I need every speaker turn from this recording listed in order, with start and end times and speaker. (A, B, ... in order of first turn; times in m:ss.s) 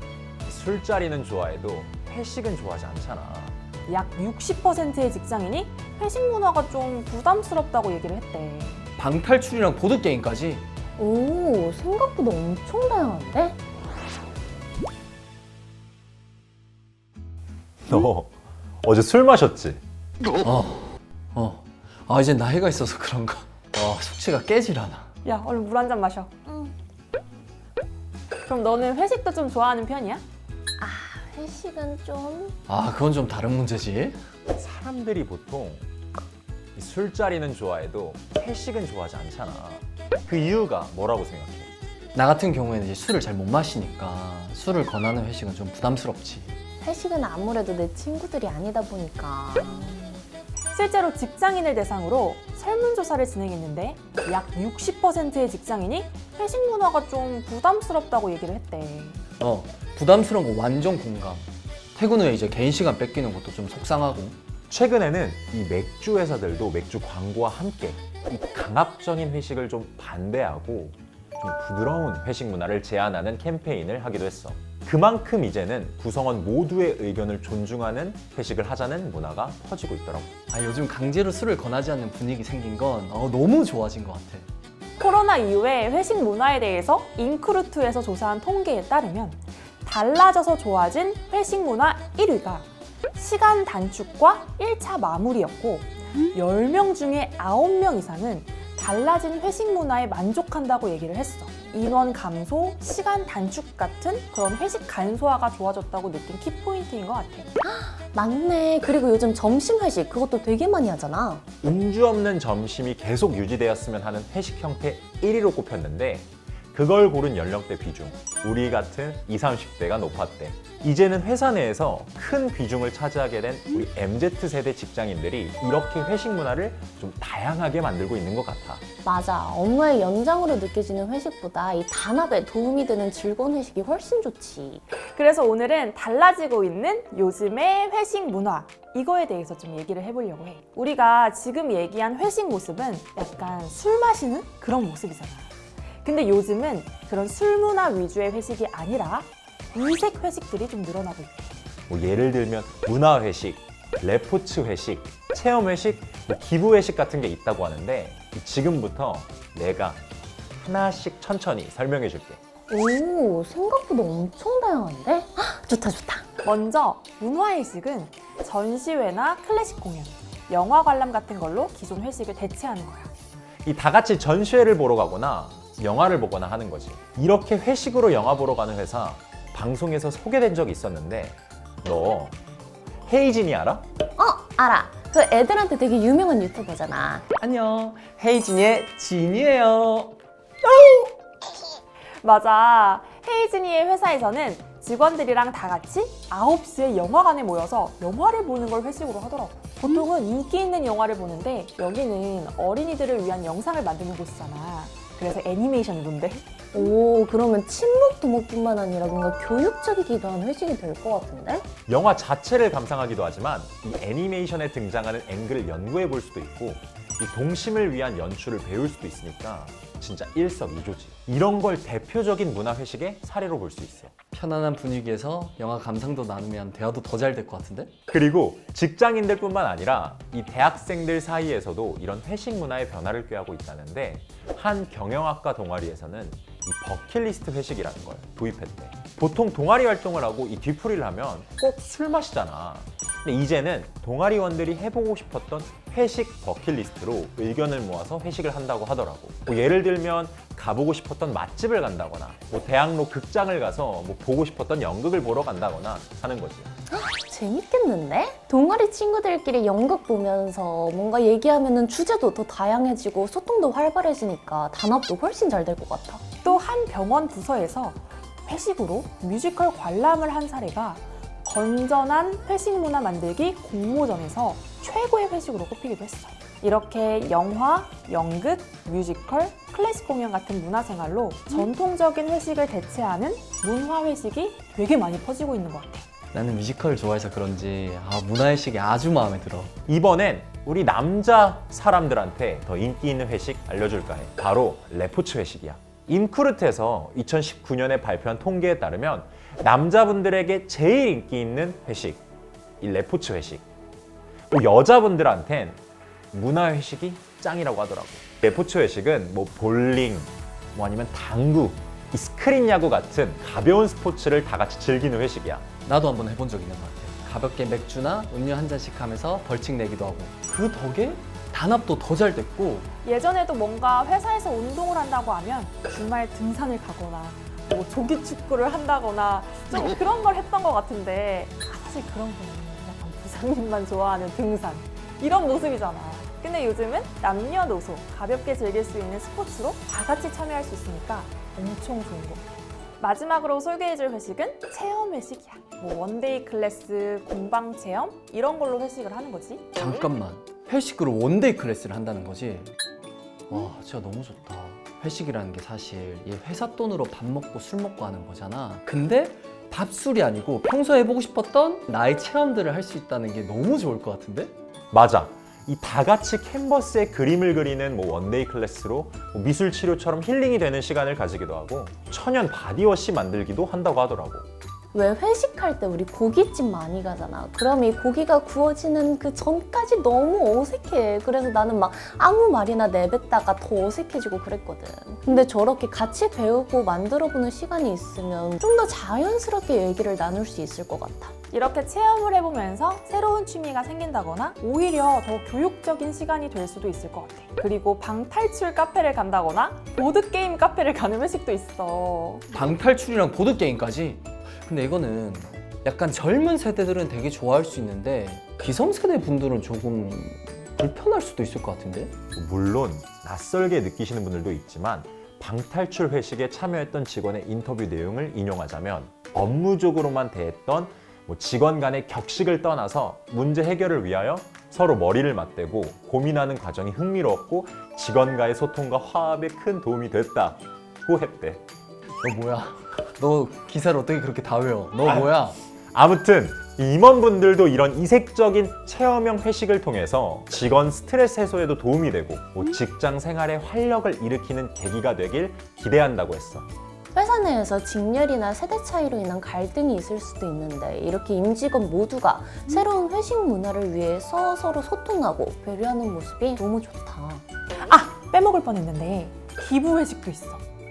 0:00.4-0:03.6 A
0:03.9-0:08.9 B
0:09.0-0:10.6 C
0:11.0-0:13.6 D
0:17.9-0:18.3 A
0:18.8-0:19.8 A
0:20.4-0:25.1 C
0:25.2-0:26.3 B
0:26.4-0:26.7 D
0:28.4-0:30.2 B
0:30.8-0:32.6 D
0:32.7-0:34.2 C
0:34.5-0:35.8 A
0:36.8-0:41.7 A
0:42.1-0:46.6 C
0:46.8-0:50.2 D
0:50.7-0:59.2 B
0:59.4-1:04.4 C
1:04.7-1:20.3 A
1:20.5-1:24.5 C
1:25.0-1:47.5 B
1:47.6-1:51.4 D
1:51.6-2:08.8 A
2:09.0-2:14.8 D
2:15.0-2:31.5 B
2:31.9-2:40.0 A
2:40.6-2:42.4 A
2:42.7-2:46.3 D
2:46.4-2:53.1 B
2:53.6-3:02.3 A
3:03.0-3:03.8 A
3:04.2-3:07.2 D
3:07.4-3:11.1 C
3:12.2-3:26.4 B
3:26.7-3:31.7 D
3:31.9-3:44.1 A
3:44.3-3:47.9 C
3:48.1-4:16.7 A
4:16.9-4:26.2 D
4:26.4-4:46.1 B
4:46.3-4:49.7 C
4:49.9-5:02.2 A
5:02.8-5:03.6 A
5:04.5-5:05.8 A
5:06.3-5:15.6 A
5:15.8-5:22.9 C
5:23.0-5:42.4 B
5:43.0-5:49.6 B
5:49.8-5:52.7 C
5:53.5-6:04.5 C
6:04.9-6:14.4 A
6:14.9-6:31.3 D
6:31.5-6:42.4 B
6:42.5-6:52.2 C
6:52.4-7:11.6 A
7:12.2-7:15.6 C
7:15.0-7:15.3 A
7:15.9-7:26.7 A
7:27.1-7:37.4 D
7:37.9-7:40.6 B